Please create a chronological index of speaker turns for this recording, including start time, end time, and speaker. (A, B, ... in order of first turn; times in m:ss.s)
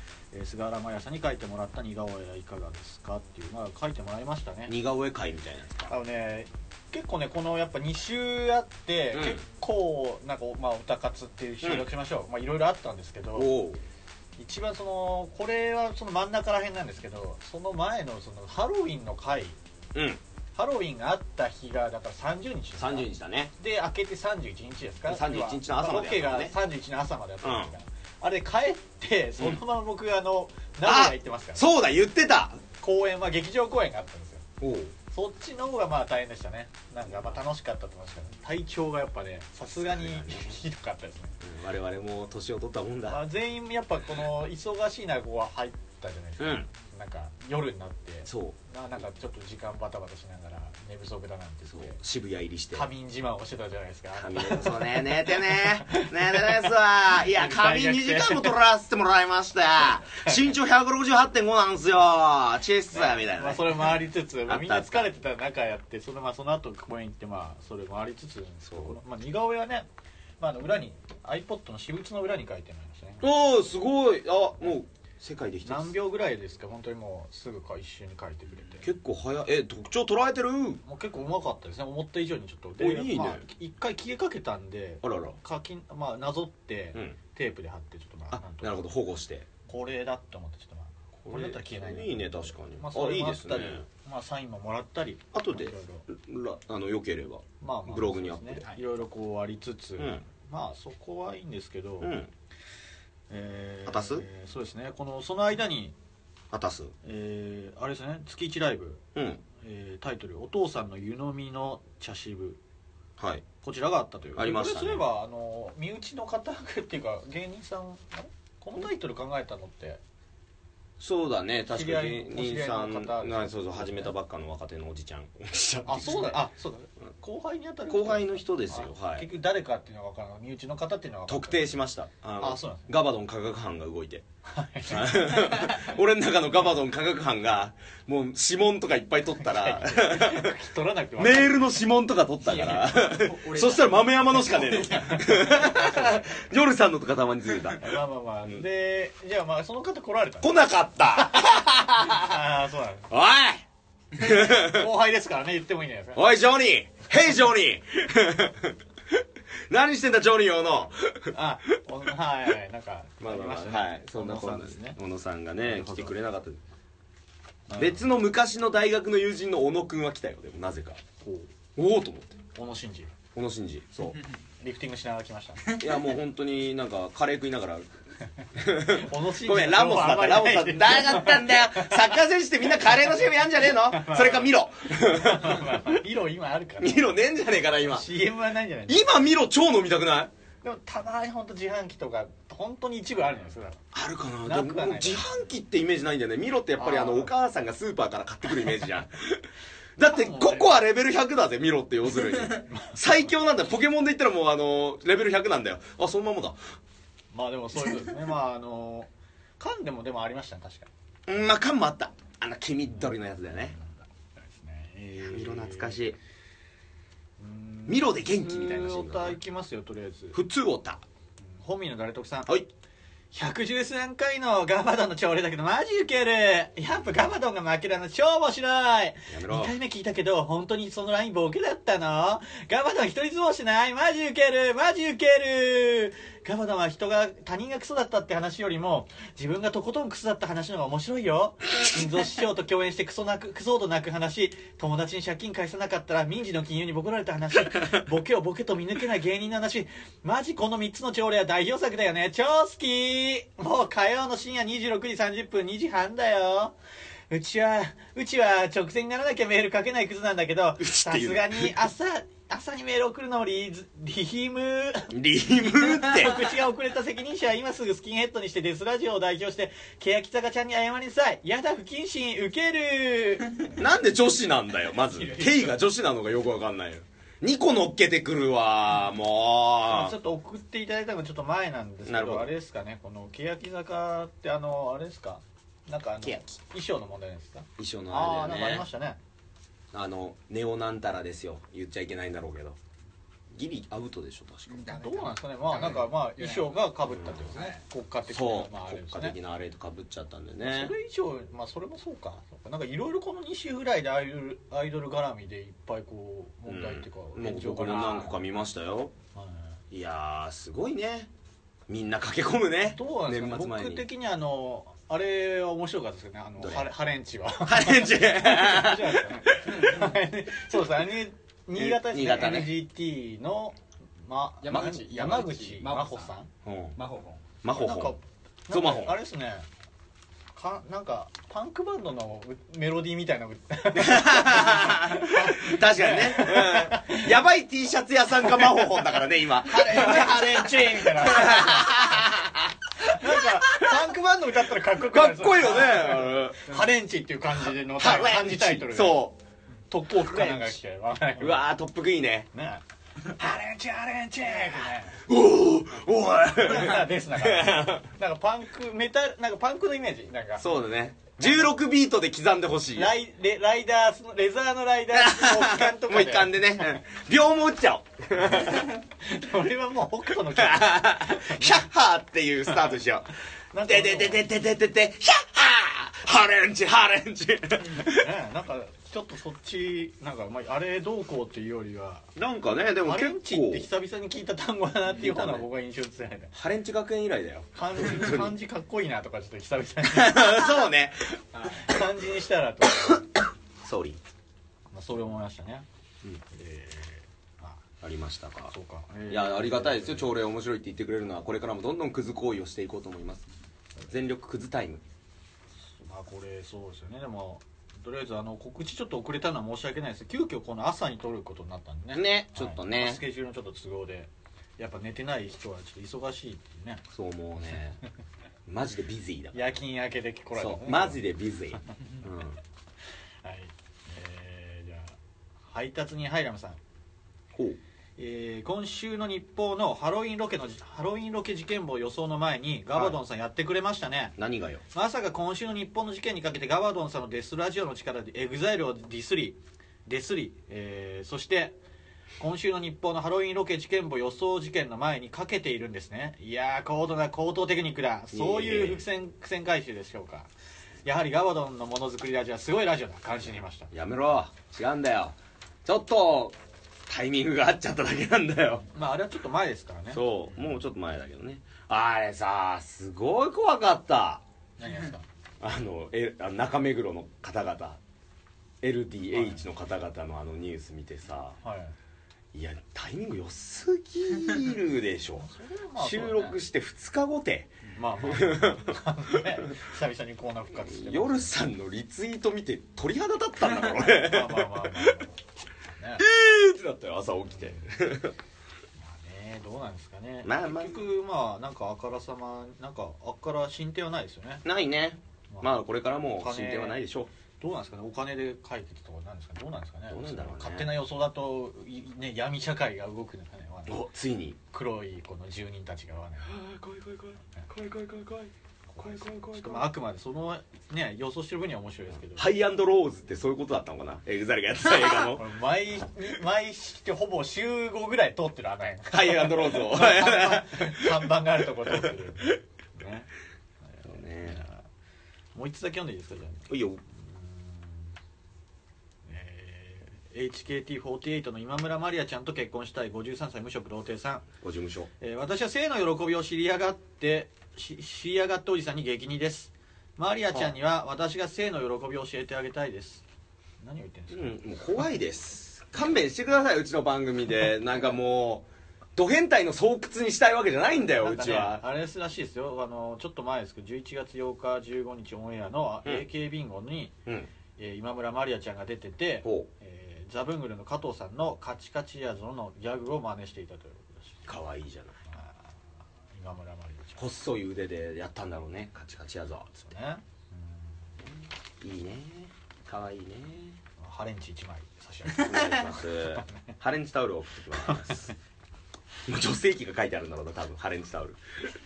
0:00.3-0:04.7 A
0:04.7-0:05.9 B
0:05.9-0:13.5 A
0:09.1-0:09.4 B
0:13.3-0:13.8 B
0:14.4-0:19.6 A
0:19.9-0:20.2 B
0:20.6-0:31.7 A
0:22.8-0:23.5 B
0:25.0-0:26.5 B
0:27.4-0:27.7 B
0:30.8-0:32.6 B
0:32.8-0:34.5 A
0:34.6-0:34.9 B
0:35.1-0:41.4 A
0:39.8-0:40.6 B
0:41.4-0:43.2 B
0:43.1-0:52.0 A
0:46.4-0:46.7 B
0:48.3-0:48.6 B
0:51.7-0:52.9 B
0:52.7-0:56.7 A
0:54.2-1:05.1 B
0:57.2-0:58.6 A
1:02.9-1:09.9 A
1:08.6-1:09.0 B
1:10.4-1:13.3 A
1:13.2-1:15.9 B
1:15.6-1:18.9 A
1:18.8-1:20.8 B
1:20.8-1:28.9 A
1:22.8-1:23.4 B
1:25.0-1:25.4 B
1:28.3-1:29.5 B
1:29.7-1:36.1 A
1:31.2-1:33.8 B
1:35.3-1:38.8 B
1:37.6-1:42.2 A
1:40.0-1:40.2 B
1:42.0-1:42.3 B
1:43.3-1:45.9 A
1:43.9-1:44.2 B
1:46.5-1:46.9 B
1:47.0-1:49.0 A
1:49.1-1:49.4 B
1:49.6-1:52.6 A
1:53.2-1:53.4 B
1:53.6-2:00.0 A
1:54.4-1:55.0 B
2:01.0-2:06.5 B
2:01.7-2:04.1 A
2:05.8-2:11.8 A
2:07.9-2:09.3 B
2:11.3-2:14.2 B
2:12.4-2:12.9 A
2:14.4-2:15.7 A
2:14.9-2:20.5 B
2:19.4-2:21.7 A
2:21.2-2:27.9 B
2:23.1-2:24.3 C
2:24.5-2:26.4 A
2:27.8-2:30.6 A
2:30.4-2:32.4 B
2:31.1-2:33.1 A
2:33.1-2:33.6 B
2:34.1-2:34.9 B
2:34.2-2:36.2 A
2:36.1-2:41.3 B
2:40.8-2:45.0 A
2:43.2-2:46.6 B
2:45.6-2:46.1 A
2:47.7-2:48.0 A
2:47.8-2:51.0 B
2:51.2-2:51.5 A
2:51.8-2:52.4 B
2:52.5-2:53.1 A
2:53.3-2:54.2 B
2:54.6-2:55.8 A
2:55.7-2:57.9 B
2:58.5-3:06.0 B
2:58.7-3:02.0 A
3:03.7-3:07.2 A
3:06.8-3:08.1 B
3:07.8-3:09.2 A
3:08.9-3:10.3 B
3:10.6-3:13.8 A
3:13.9-3:19.4 B
3:14.4-3:15.4 A
3:16.8-3:17.3 A
3:20.0-3:26.6 B
3:20.0-3:20.8 A
3:22.6-3:23.0 A
3:27.3-3:30.9 A
3:31.3-3:33.8 B
3:33.7-3:36.0 A
3:35.2-3:36.2 B
3:37.4-3:40.4 A
3:37.9-3:39.4 B
3:40.3-3:41.0 B
3:41.4-3:42.5 A
3:43.3-4:16.7 A
3:49.3-3:49.7 B
4:17.3-4:25.1 A
4:20.8-4:21.7 B
4:25.1-4:26.4 B
4:25.7-4:33.7 A
4:33.8-4:40.2 B
4:39.9-4:49.2 A
4:42.0-4:42.5 B
4:46.2-4:46.5 B
4:47.8-4:48.9 B
4:49.9-4:52.8 B
4:53.5-4:54.9 B
4:54.7-4:57.8 C
4:54.9-4:59.4 A
4:57.1-4:57.5 B
4:58.3-5:01.0 B
5:00.6-5:08.4 A
5:06.6-5:09.1 B
5:09.3-5:09.8 A
5:09.9-5:11.3 B
5:11.9-5:14.0 B
5:12.9-5:26.5 A
5:16.6-5:16.9 B
5:17.6-5:20.0 B
5:21.7-5:22.7 B
5:24.6-5:26.3 C
5:26.6-5:27.0 B
5:27.0-5:27.4 C
5:27.6-5:28.2 B
5:27.7-5:29.7 A
5:28.7-5:29.2 B
5:30.5-5:37.3 A
5:33.9-5:44.0 B
5:39.6-5:42.2 A
5:43.0-5:49.3 A
5:44.9-5:46.7 B
5:47.8-5:49.4 B
5:49.9-5:51.6 A
5:50.2-5:50.7 B
5:51.4-5:52.5 B
5:52.5-5:55.2 A
5:55.3-5:58.1 B
5:56.6-6:00.7 A
6:00.6-6:03.1 B
6:01.4-6:01.7 A
6:03.0-6:06.6 A
6:05.1-6:08.9 B
6:08.5-6:11.8 A
6:10.5-6:13.3 B
6:13.7-6:14.4 A
6:13.8-6:18.2 B
6:18.1-6:22.3 A
6:22.4-6:23.9 B
6:23.0-6:26.5 A
6:25.1-6:25.7 B
6:26.5-6:28.6 B
6:27.7-6:30.6 A
6:30.0-6:31.8 B
6:31.6-6:33.3 A
6:33.8-6:34.2 B
6:34.9-6:35.8 A
6:36.5-6:37.8 A
6:38.0-6:38.7 B
6:38.7-6:40.3 A
6:39.3-6:43.5 B
6:44.1-6:45.0 B
6:45.8-6:57.0 A
6:52.1-6:53.2 B
6:57.1-6:58.0 B
6:58.7-6:59.8 B
6:59.5-7:01.2 A
7:00.6-7:02.6 B
7:03.4-7:05.2 A
7:05.7-7:06.8 A
7:07.5-7:07.8 B
7:08.2-7:14.4 A
7:14.4-7:14.8 B
7:14.9-7:21.8 A
7:22.4-7:30.5 A
7:28.3-7:29.0 B
7:31.0-7:33.9 A
7:33.9-7:38.9 B
7:38.9-7:40.2 A
7:40.1-7:44.4 B
7:44.8-7:45.2 A
7:45.6-7:48.0 B
7:48.8-7:51.6 B
7:49.3-7:49.6 A
7:51.6-7:51.9 A
7:52.5-7:58.9 B
7:55.4-7:56.6 A
7:58.0-8:01.6 A
8:00.9-8:05.1 B
8:04.1-8:05.4 A
8:05.9-8:06.2 A
8:06.2-8:08.3 B
8:09.0-8:14.6 A
8:10.4-8:11.0 B
8:14.6-8:17.3 B
8:16.4-8:17.0 A
8:17.6-8:24.0 A
8:20.1-8:20.9 B
8:23.9-8:24.6 B
8:24.7-8:26.6 A
8:26.4-8:29.9 B
8:28.9-8:32.5 A
8:32.3-8:35.4 B
8:35.3-8:43.3 A
8:39.1-8:41.1 B
8:41.9-8:42.1 B
8:43.8-8:44.8 A
8:44.0-8:44.6 B
8:45.5-8:48.1 A
8:46.7-8:47.0 B
8:49.2-8:54.4 A
8:54.6-8:55.1 B
8:55.2-9:03.2 A
9:03.8-9:04.6 A
9:04.3-9:11.8 B
9:11.2-9:17.2 A
9:17.8-9:24.5 A
9:24.5-9:25.2 B
9:25.3-9:25.8 A
9:26.3-9:27.2 A
9:27.2-9:29.9 B
9:29.8-9:30.8 A
9:31.2-9:33.8 B
9:34.0-9:36.4 A
9:35.4-9:38.3 B
9:37.8-9:38.3 A
9:39.3-9:41.7 B